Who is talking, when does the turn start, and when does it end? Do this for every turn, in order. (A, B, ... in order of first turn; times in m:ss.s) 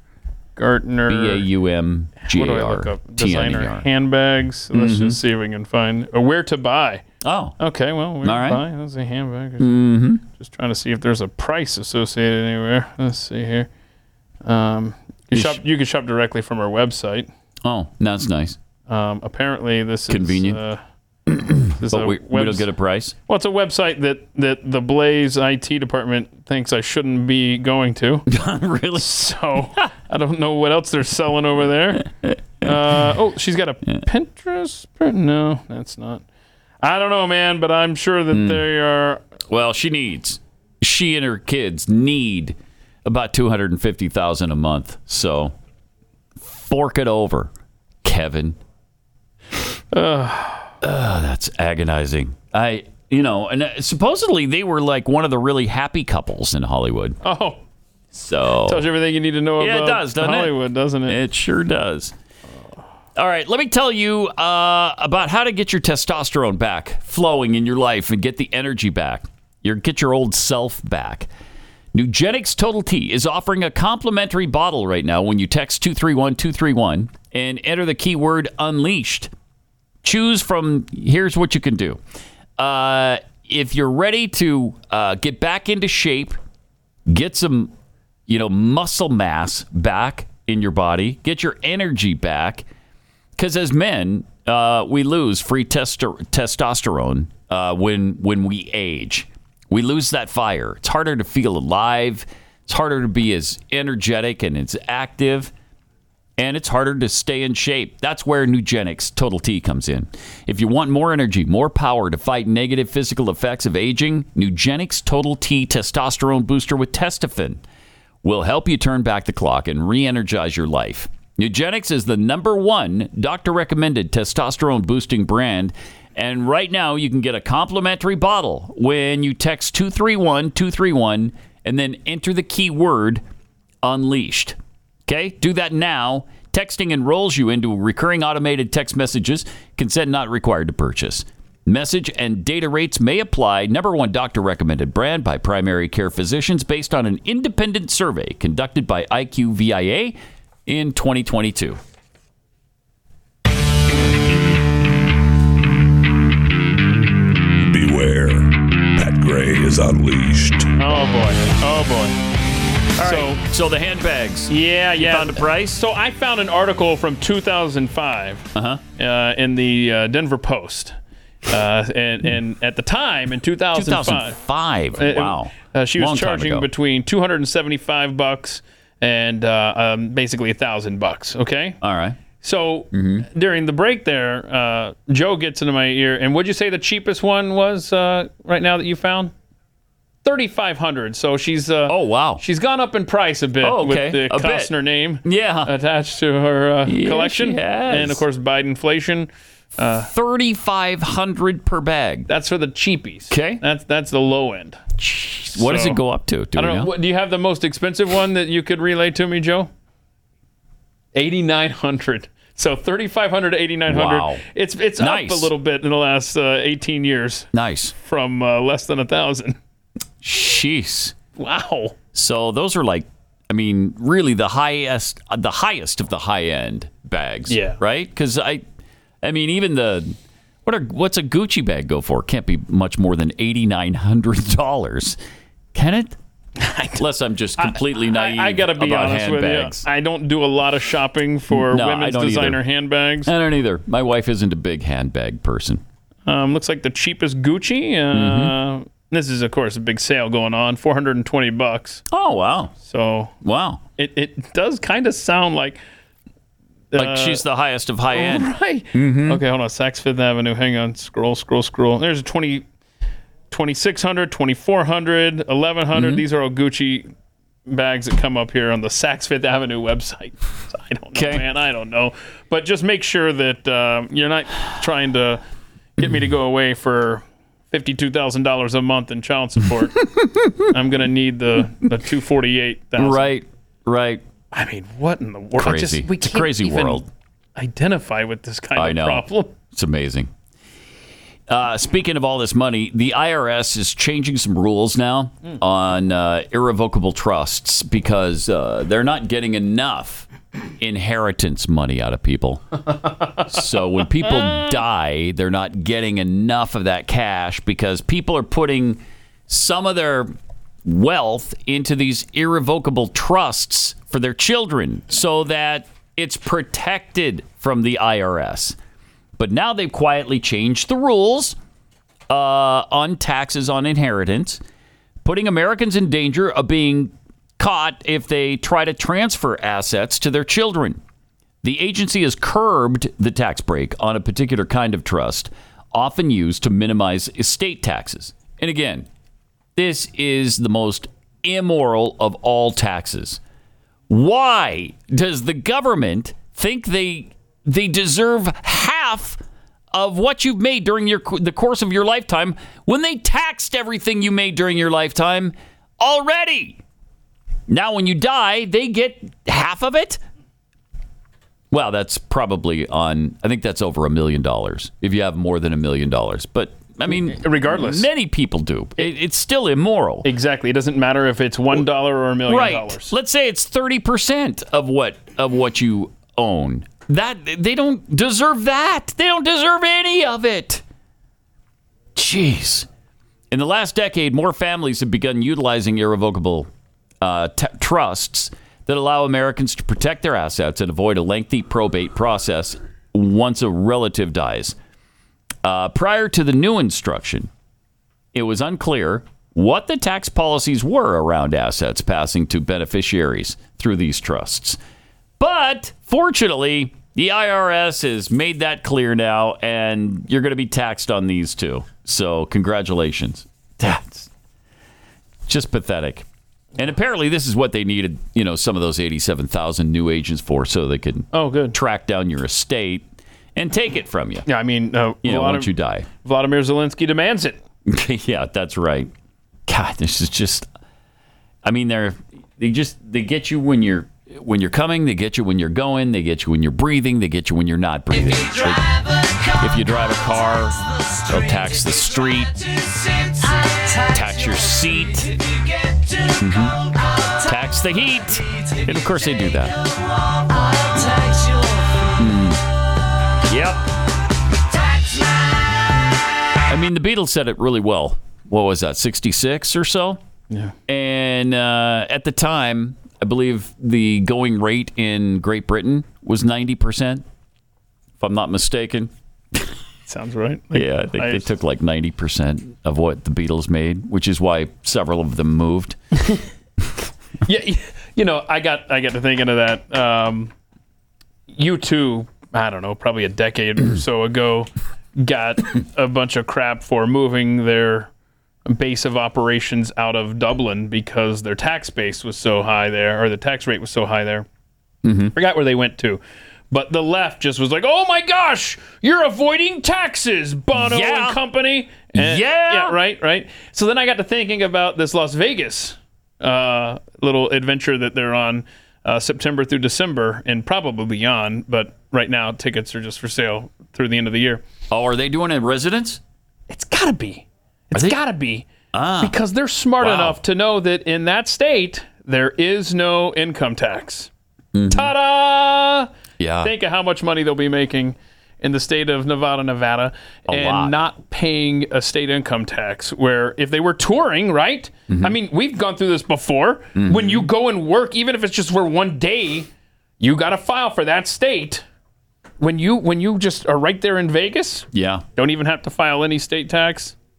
0:00.6-0:01.5 A
0:01.1-0:03.9 B
0:02.2-0:07.0 A
0:04.7-0:05.2 B
0:07.2-0:07.6 B
0:07.6-0:09.7 A
0:08.2-0:08.6 B
0:09.6-0:10.2 B
0:10.3-0:13.7 A
0:14.4-0:17.3 A
0:15.3-0:15.6 B
0:17.6-0:18.6 B
0:18.9-0:20.8 A
0:20.1-0:20.6 B
0:21.3-0:23.1 B
0:21.8-0:22.7 A
0:23.3-0:28.3 A
0:28.3-0:29.9 B
0:29.0-0:32.1 A
0:32.0-0:33.0 B
0:32.6-0:36.2 A
0:36.8-0:39.2 A
0:38.3-0:38.6 B
0:39.5-0:45.5 B
0:46.4-0:47.5 B
0:48.0-0:48.6 B
0:49.9-0:50.7 A
0:50.8-0:57.2 B
0:57.2-0:57.6 A
0:58.1-0:58.9 B
0:58.6-1:01.2 A
0:59.6-1:02.1 B
1:03.2-1:11.3 B
1:11.9-1:19.3 B
1:20.0-1:22.0 B
1:22.6-1:26.4 B
1:27.1-1:27.7 B
1:28.3-1:32.6 B
1:33.4-1:45.5 B
1:46.4-1:57.6 B
1:58.2-2:13.2 B
2:13.8-2:31.8 B
2:37.6-2:40.7 C
2:40.8-2:42.2 A
2:43.0-2:45.8 B
2:43.0-2:43.4 A
2:44.5-2:50.9 A
2:48.5-2:48.8 B
2:51.4-2:54.4 A
2:53.7-2:56.7 B
2:55.0-3:01.8 A
3:01.8-3:02.2 B
3:02.4-3:09.3 A
3:02.9-3:03.3 B
3:10.2-3:20.1 A
3:11.9-3:12.4 B
3:13.6-3:14.7 B
3:15.2-3:15.7 B
3:16.8-3:18.2 B
3:20.0-3:22.3 B
3:22.3-3:24.8 A
3:23.3-3:23.6 B
3:25.0-3:26.9 B
3:25.5-3:26.0 A
3:26.5-3:29.7 A
3:31.1-3:37.5 A
3:33.9-3:34.4 B
3:35.0-3:35.5 B
3:37.5-3:37.9 B
3:38.0-3:39.6 A
3:40.2-3:41.1 B
3:41.4-3:42.0 A
3:42.1-3:48.6 B
3:47.5-3:47.8 A
3:49.2-3:55.2 B
3:55.7-3:56.2 B
3:56.6-3:57.0 A
3:57.0-3:59.8 B
3:57.6-4:03.3 A
4:01.5-4:02.6 B
4:03.2-4:05.8 B
4:06.2-4:12.0 A
4:08.1-4:08.5 B
4:12.1-4:12.7 B
4:12.8-4:13.3 A
4:13.4-4:13.8 B
4:14.0-4:15.8 A
4:16.9-4:17.4 A
4:17.0-4:19.4 B
4:18.1-4:22.6 A
4:23.5-4:27.1 A
4:25.9-4:26.2 B
4:27.7-4:35.4 A
4:31.1-4:31.4 B
4:36.0-4:40.0 A
4:40.0-4:40.7 B
4:40.7-4:43.3 A
4:43.0-4:44.2 B
4:44.5-4:49.5 A
4:45.6-4:47.1 B
4:48.7-4:50.3 B
4:51.5-5:02.8 B
5:03.4-5:10.3 B
5:10.8-5:18.8 B
5:19.4-5:21.6 B
5:22.3-5:24.6 B
5:25.2-5:31.0 B
5:31.6-5:39.1 B
5:39.8-5:43.4 B
5:44.1-5:49.4 B
5:49.9-5:56.8 B
5:57.7-6:00.2 B
6:01.7-6:10.3 B
6:07.1-6:08.1 A
6:10.2-6:13.1 A
6:12.4-6:20.8 B
6:22.1-6:22.9 B
6:23.5-6:26.7 B
6:27.2-6:34.8 B
6:35.6-6:37.5 B
6:38.3-6:44.8 B
6:45.4-6:54.3 B
6:55.5-7:04.5 B
7:01.3-7:01.7 A
7:04.4-7:05.7 A
7:05.2-7:06.1 B
7:06.2-7:07.6 A
7:07.8-7:09.1 B
7:09.7-7:10.7 B
7:11.6-7:22.8 B
7:24.0-7:25.4 B
7:26.2-7:29.8 B
7:30.8-7:31.2 B
7:32.1-7:32.6 B
7:33.4-7:33.9 B
7:36.7-7:40.2 B
7:40.9-7:47.2 B
7:48.2-7:49.7 B
7:50.1-7:51.4 A
7:50.7-7:56.0 B
7:57.4-8:00.5 A
8:01.5-8:08.1 A
8:08.6-8:14.4 A
8:15.0-8:15.3 B
8:15.3-8:34.6 A
8:20.7-8:21.4 B
8:22.1-8:23.0 B
8:34.9-8:36.2 B
8:36.7-8:38.7 A
8:37.9-8:38.2 B
8:38.9-8:39.3 B
8:39.2-8:44.3 A
8:40.0-8:40.4 B
8:44.7-8:45.1 B
8:44.9-8:46.1 A
8:46.4-8:46.7 B
8:46.6-8:59.7 A
8:50.5-8:50.9 B
8:55.1-8:55.3 B
8:56.9-8:57.4 B
9:00.2-9:01.8 A
9:02.6-9:07.1 A
9:04.9-9:05.2 B